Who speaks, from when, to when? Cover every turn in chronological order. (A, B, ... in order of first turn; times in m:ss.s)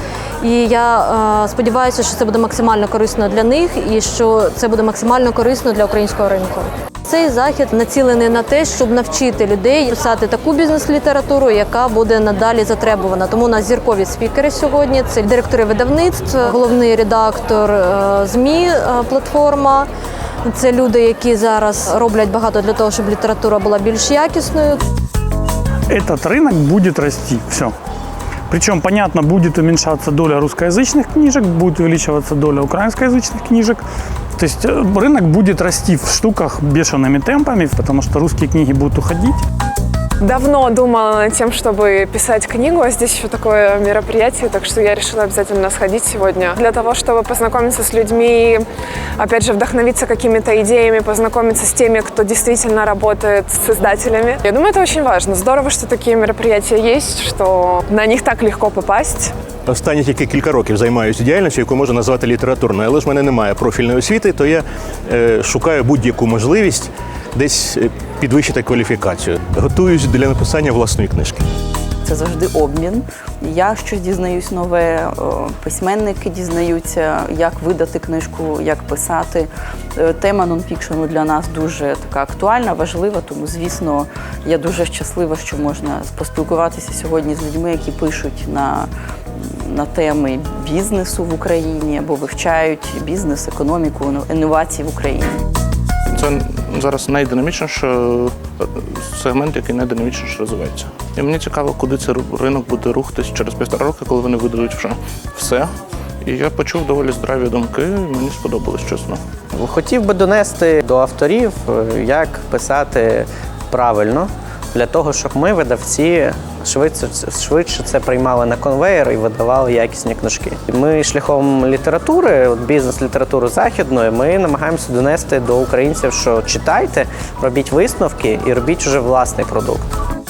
0:00.4-0:19.9 A
0:20.4-0:24.8 A
0:25.9-0:27.7 B
0:28.5-0:33.8 B
0:34.4-0:39.4 B
0:40.2-0:48.6 C
0:49.2-0:59.3 C
0:59.6-1:11.4 D
1:12.0-1:35.4 E
1:36.1-1:45.7 F
1:46.2-1:49.2 F
1:49.5-2:09.9 G